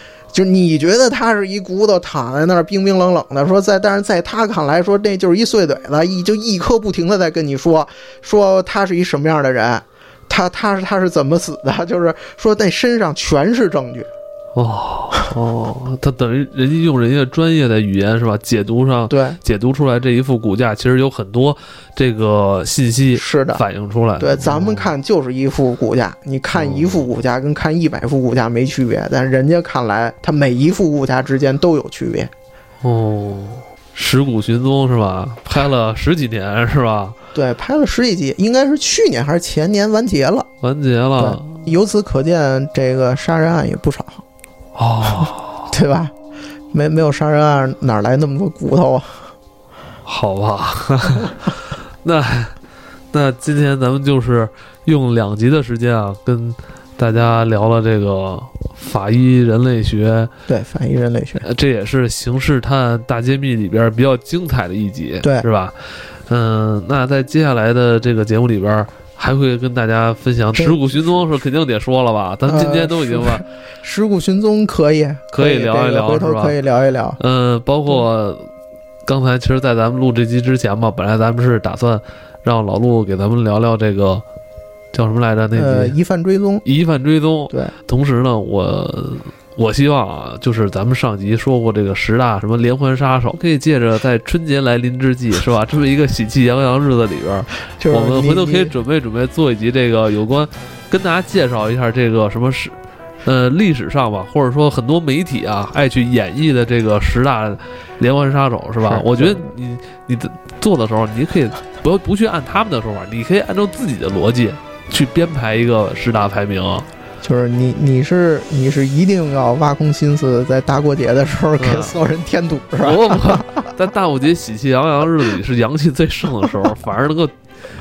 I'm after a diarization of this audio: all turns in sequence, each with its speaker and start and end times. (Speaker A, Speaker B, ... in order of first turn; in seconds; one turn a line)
Speaker A: 0.3-14.1
Speaker B: 14.5-24.9
Speaker A: 19.1-19.4
Speaker A: 23.1-23.6
Speaker A: 24.2-32.3
Speaker B: 26.5-27.1
Speaker B: 32.8-37.1
Speaker A: 37.3-40.5
Speaker B: 40.6-41.6
Speaker A: 41.2-44.2
Speaker B: 44.8-45.7
Speaker A: 45.0-46.1
Speaker A: 46.7-49.3
Speaker B: 50.0-52.5
Speaker B: 53.1-60.3
Speaker A: 60.5-61.5
Speaker B: 61.4-65.8
Speaker A: 65.2-65.5
Speaker B: 66.3-73.4
Speaker A: 70.5-71.3
Speaker A: 72.5-77.2
Speaker B: 75.3-76.6
Speaker B: 77.2-78.5
Speaker B: 79.0-84.2
Speaker B: 84.9-86.0
Speaker A: 85.5-86.6
Speaker B: 86.6-116.8
Speaker A: 87.5-87.7
Speaker A: 97.8-98.7
Speaker A: 108.8-109.5
Speaker A: 117.2-123.7
Speaker B: 121.6-122.0
Speaker B: 122.8-127.3